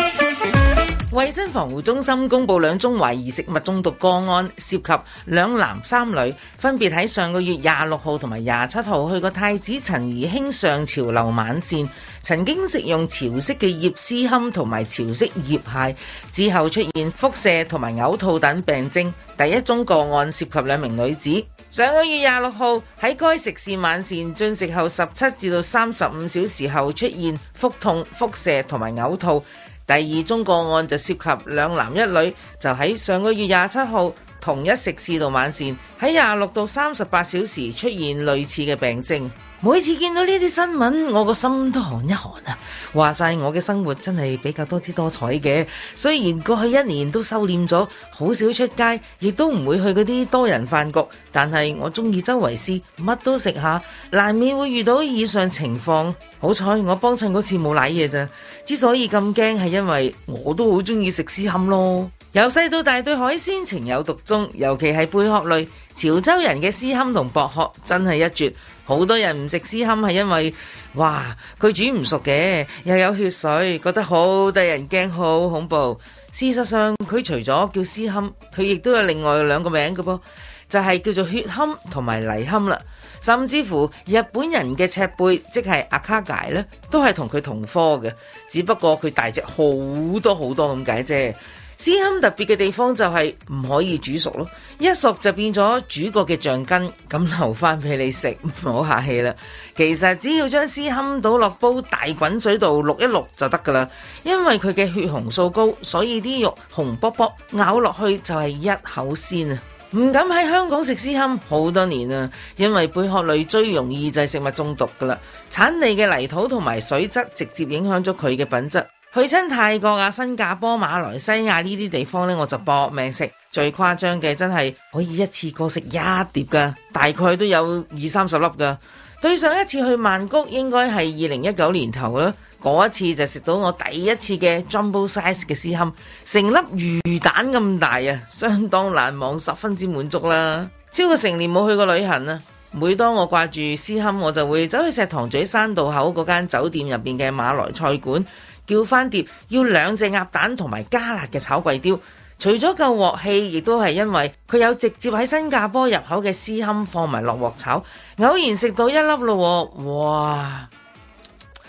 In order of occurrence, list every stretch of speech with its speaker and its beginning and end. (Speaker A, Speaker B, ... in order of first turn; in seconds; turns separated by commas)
Speaker A: 1.1-160.7